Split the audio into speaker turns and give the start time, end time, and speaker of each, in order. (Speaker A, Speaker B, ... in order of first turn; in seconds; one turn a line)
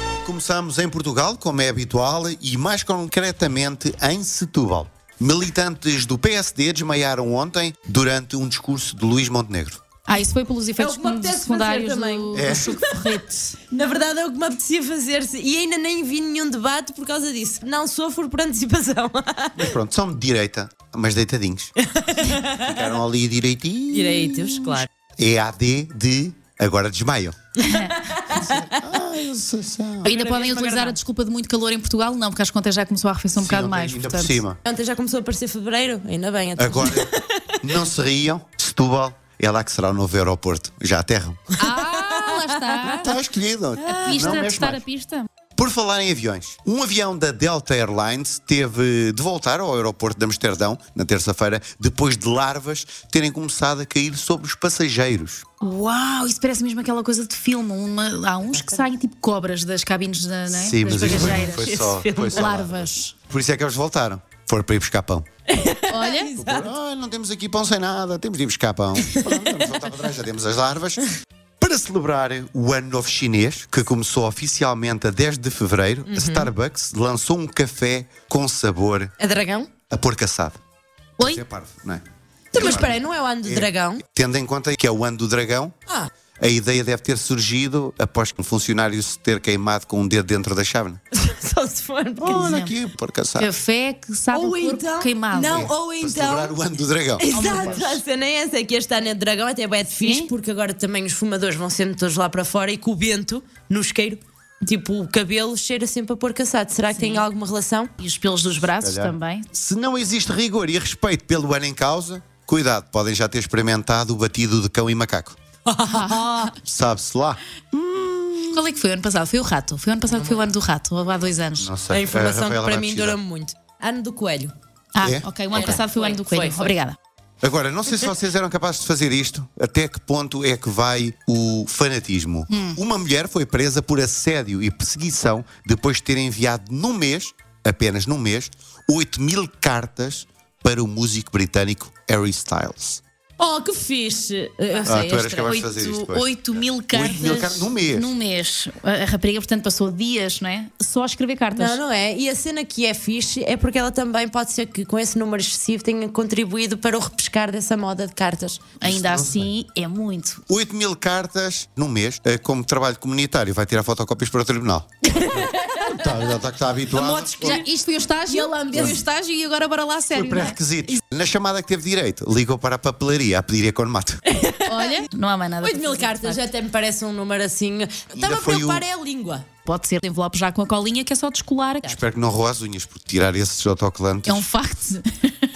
Speaker A: 0.2-9.8
Speaker B: 10.1-13.5
Speaker C: 10.8-19.8
Speaker A: 12.3-12.7
Speaker A: 19.6-21.7
Speaker C: 21.8-23.0
Speaker A: 22.6-27.4
Speaker C: 23.9-24.9
Speaker B: 27.6-27.9
Speaker C: 27.7-28.8
Speaker A: 28.4-30.1
Speaker B: 30.0-34.4
Speaker C: 30.0-31.0
Speaker A: 33.4-34.6
Speaker C: 34.6-37.2
Speaker A: 36.6-37.1
Speaker A: 37.6-41.4
Speaker B: 41.6-43.1
Speaker C: 41.7-43.0
Speaker A: 43.0-44.8
Speaker C: 43.8-44.4
Speaker B: 43.9-45.3
Speaker A: 45.5-55.5
Speaker B: 55.6-61.7
Speaker C: 58.5-58.9
Speaker A: 60.5-65.2
Speaker C: 60.9-62.5
Speaker B: 62.3-63.1
Speaker C: 65.5-66.7
Speaker B: 65.9-66.3
Speaker A: 66.4-71.0
Speaker C: 69.0-69.9
Speaker A: 71.6-79.1
Speaker C: 76.1-76.5
Speaker C: 79.2-79.7
Speaker A: 79.9-80.6
Speaker A: 81.2-82.0
Speaker C: 82.5-84.0
Speaker A: 82.5-85.7
Speaker A: 86.4-91.0
Speaker C: 91.1-92.5
Speaker A: 92.2-93.5
Speaker B: 92.3-92.7
Speaker B: 93.4-95.7
Speaker C: 94.3-96.5
Speaker A: 95.5-97.8
Speaker C: 97.2-107.9
Speaker B: 97.3-98.0
Speaker B: 100.0-100.3
Speaker B: 106.9-107.2
Speaker B: 108.0-109.5
Speaker A: 108.8-115.4
Speaker C: 115.7-116.5
Speaker B: 115.9-116.5
Speaker A: 116.6-118.6
Speaker B: 118.5-121.7
Speaker C: 120.0-120.5
Speaker A: 121.6-123.2
Speaker C: 121.9-124.5
Speaker B: 124.9-127.0
Speaker A: 125.0-125.8
Speaker C: 125.5-126.8
Speaker A: 127.4-143.0
Speaker B: 132.5-132.8
Speaker C: 143.4-145.6
Speaker A: 144.8-148.1
Speaker B: 145.4-151.8
Speaker C: 147.0-147.6
Speaker C: 151.5-158.7
Speaker B: 158.8-160.4
Speaker A: 158.8-159.5
Speaker A: 160.5-167.6
Speaker C: 165.2-166.3
Speaker C: 166.9-167.7
Speaker B: 167.4-170.6
Speaker C: 168.3-169.0
Speaker A: 168.7-169.0
Speaker A: 170.1-174.2
Speaker C: 174.3-175.1
Speaker B: 174.7-176.4
Speaker C: 175.6-179.4
Speaker A: 178.1-178.8
Speaker B: 179.7-182.0
Speaker A: 181.8-184.5
Speaker B: 184.2-185.0